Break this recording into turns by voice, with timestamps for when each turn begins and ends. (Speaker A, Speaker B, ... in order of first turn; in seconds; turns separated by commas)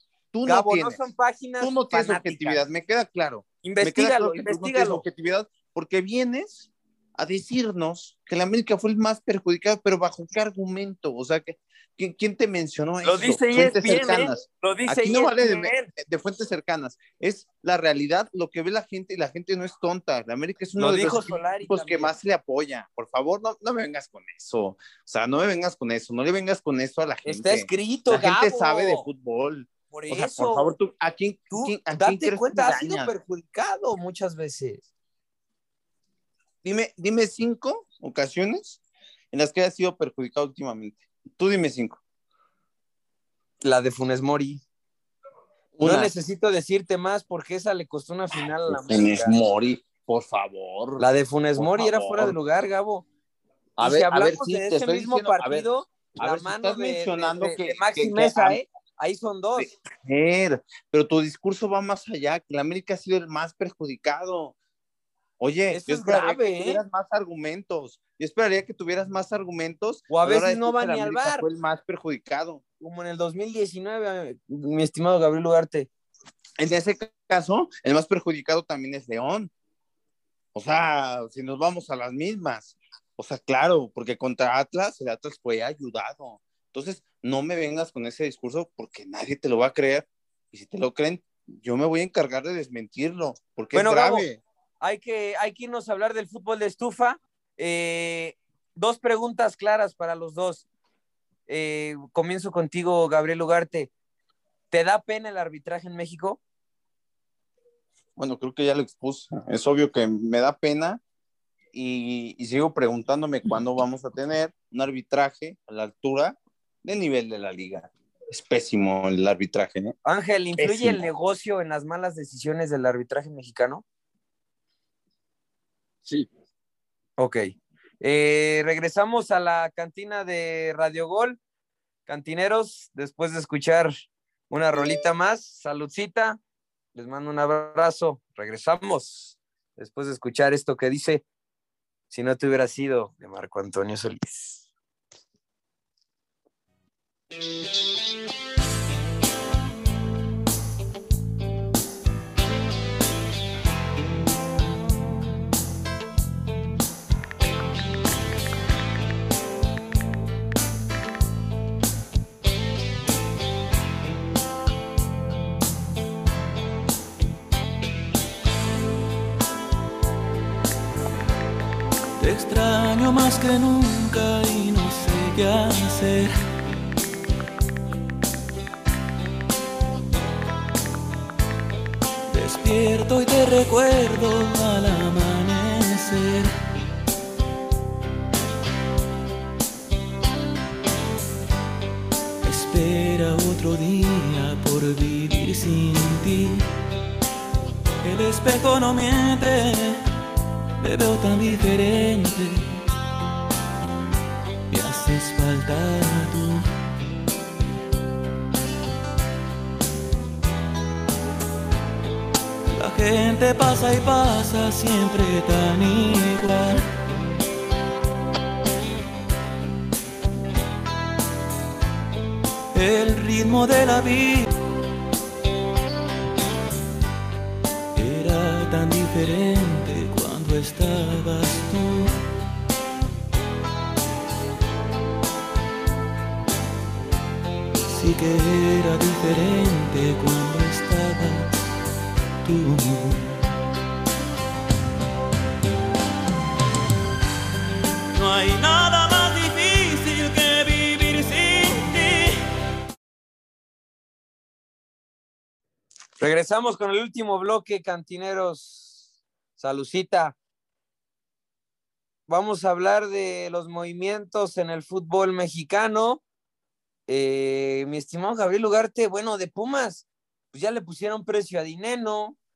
Speaker A: 0.3-1.0, Speaker B: 0.5-2.6, Speaker A: 1.6-33.1, Speaker B: 3.6-5.0, Speaker B: 13.0-15.9, Speaker B: 20.8-22.1, Speaker B: 27.2-29.1, Speaker B: 29.9-30.7, Speaker B: 31.5-34.9, Speaker A: 36.6-38.8, Speaker A: 39.3-42.0, Speaker B: 43.6-44.6, Speaker A: 45.8-46.1, Speaker B: 45.8-49.3, Speaker A: 48.7-51.1, Speaker B: 51.0-53.1, Speaker A: 51.6-52.4, Speaker A: 53.8-58.6, Speaker B: 53.8-59.7, Speaker A: 59.6-64.5, Speaker A: 65.4-72.6, Speaker B: 65.7-66.8, Speaker B: 70.1-71.5, Speaker B: 72.8-75.9, Speaker A: 76.6-79.5, Speaker A: 80.5-94.4, Speaker B: 93.7-94.3, Speaker B: 94.8-100.7, Speaker B: 101.5-103.9, Speaker B: 104.7-106.4, Speaker A: 108.2-111.0, Speaker A: 111.7-120.0, Speaker B: 120.0-123.8, Speaker A: 120.6-121.0, Speaker B: 128.0-131.4, Speaker B: 132.1-133.9, Speaker B: 134.5-136.4, Speaker B: 136.9-141.2, Speaker B: 142.1-144.7, Speaker C: 172.2-176.3, Speaker C: 182.3-186.5, Speaker C: 192.4-196.6, Speaker C: 198.0-200.0, Speaker C: 200.8-202.8, Speaker C: 204.7-206.7, Speaker C: 212.7-216.9, Speaker C: 222.7-224.4, Speaker C: 228.0-232.1, Speaker C: 237.9-241.6, Speaker C: 242.4-243.4, Speaker C: 248.1-252.4, Speaker B: 256.2-260.4, Speaker B: 262.3-266.2, Speaker B: 267.1-272.4